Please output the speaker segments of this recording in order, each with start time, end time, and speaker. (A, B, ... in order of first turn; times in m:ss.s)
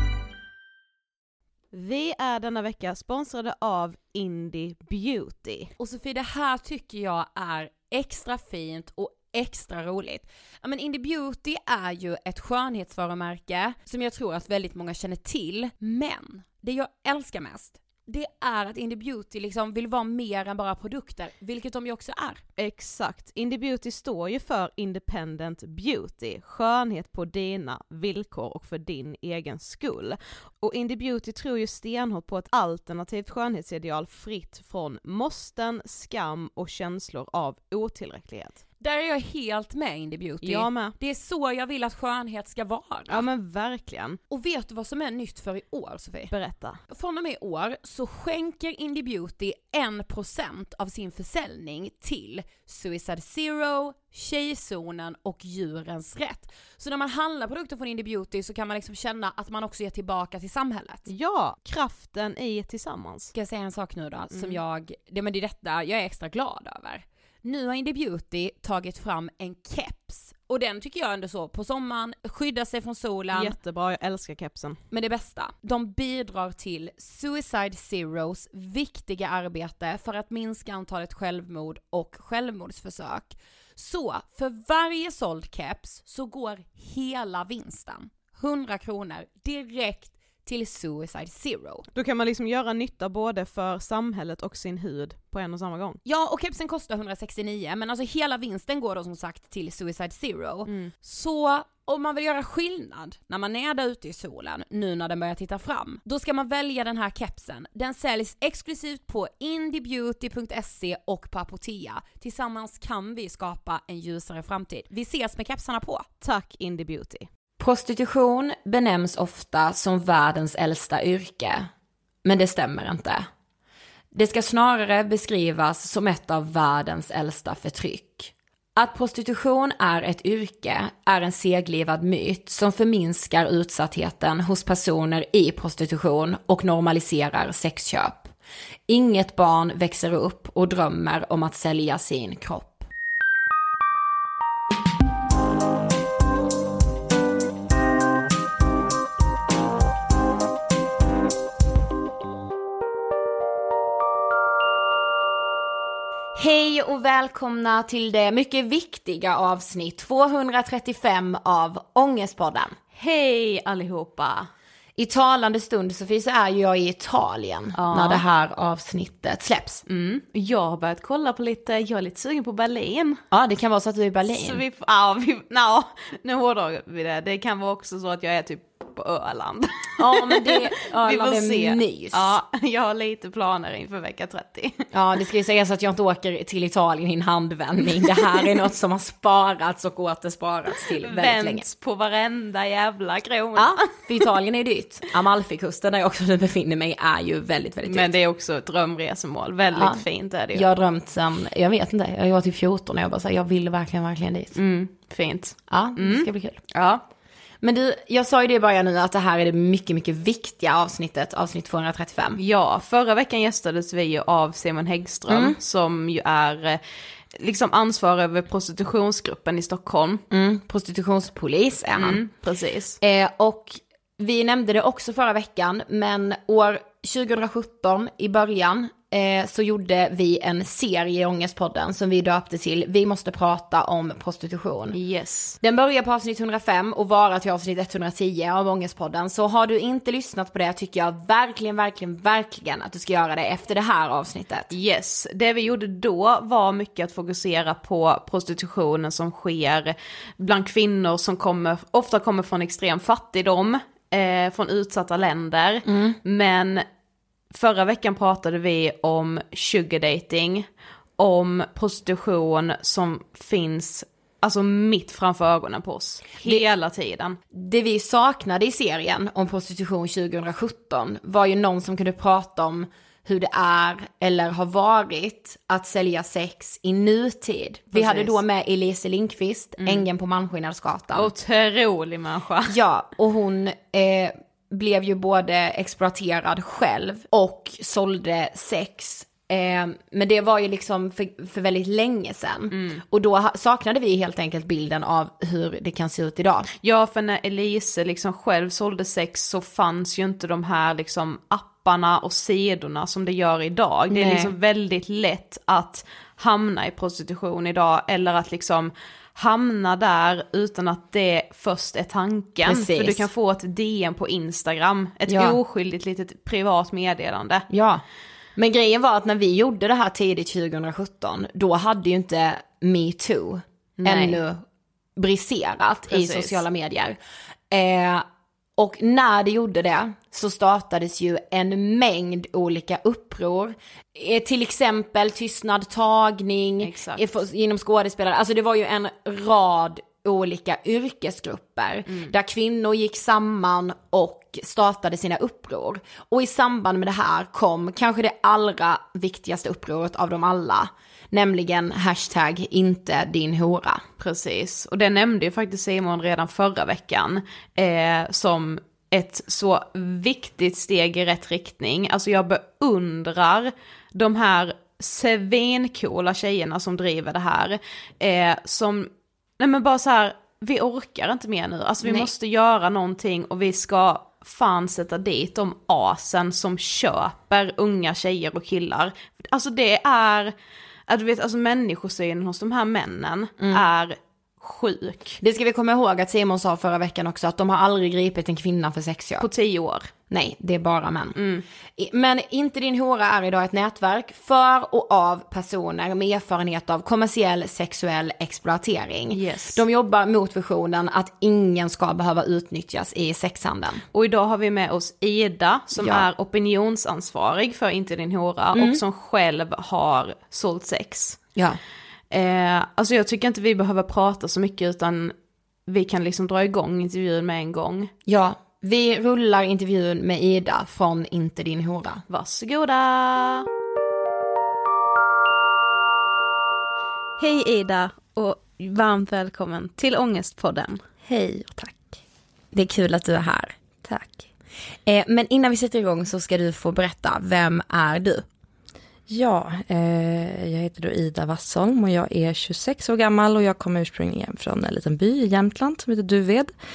0:01.7-0:05.7 A
0:05.8-0:22.4 B
0:22.6-0:38.6 A
0:38.8-0:43.2 B
0:40.4-0:41.0 A
0:43.1-0:44.2 A
0:44.3-0:46.3 B
0:46.3-0:46.8 A
0:46.9-1:01.0 B
1:01.1-1:03.3 A
1:03.3-1:13.6 B
1:04.3-1:04.6 A
1:13.3-1:14.8 A
1:14.9-1:31.8 B
1:32.0-1:36.0 A
1:36.0-1:56.1 B
1:40.7-1:40.9 A
1:56.2-1:57.3 A
1:57.6-2:01.7 B
2:02.2-2:03.3 B
2:04.1-2:18.3 B
2:18.9-2:22.9 B
2:36.3-2:42.8 B
2:43.0-2:44.5 A
2:45.0-2:49.8 B
2:47.8-2:48.2 A
2:49.9-2:53.2 A
2:53.3-2:54.6 B
2:54.3-3:04.8 A
3:00.0-3:02.4 B
3:04.9-3:11.6 B
3:11.0-3:13.9 A
3:13.6-3:18.1 B
3:17.9-3:20.7 A
3:19.8-3:20.0 B
3:20.5-3:24.6 B
3:24.6-3:27.0 A
3:25.7-3:26.6 B
3:27.6-3:32.4 B
3:32.4-3:36.8 A
3:35.3-3:35.6 B
3:37.4-3:40.2 A
3:40.3-3:42.2 B
3:42.0-3:43.0 A
3:43.0-3:55.0 B
3:54.9-3:55.6 A
3:55.6-4:04.7 B
4:04.7-4:16.8 A
4:15.9-4:16.2 B
4:17.5-4:20.7 A
4:21.2-4:27.4 A
4:27.5-4:41.3 B
4:37.9-4:38.4 A
4:39.8-4:40.1 A
4:41.2-4:42.8 A
4:42.7-4:56.7 B
4:52.7-4:53.0 A
4:56.8-5:17.7 A
5:04.1-5:04.5 B
5:12.6-5:13.3 B
5:15.3-5:15.6 B
5:17.7-5:18.0 B
5:18.6-5:24.6 B
5:24.0-5:24.4 A
5:25.2-5:27.2 B
5:26.1-5:26.6 A
5:27.7-5:28.3 B
5:28.8-5:54.0 B
5:36.8-5:37.2 A
5:42.1-5:42.3 A
5:54.2-6:20.6 A
6:12.0-6:12.3 B
6:21.1-6:25.4 A
6:25.4-6:29.5 B
6:29.4-6:30.1 A
6:30.3-6:31.4 B
6:31.4-6:31.6 A
6:32.0-6:44.0 B
6:39.3-6:39.8 A
6:44.1-6:51.5 A
6:46.0-6:46.2 C
6:48.7-6:49.0 B
6:52.3-6:55.3 A
6:55.9-6:58.1 A
6:58.3-7:02.2 B
7:02.3-7:03.7 A
7:07.4-7:11.0 A
7:11.2-7:12.2 C
7:12.7-7:13.8 B
7:14.0-7:14.5 C
7:15.1-7:18.5 B
7:19.3-7:26.7 C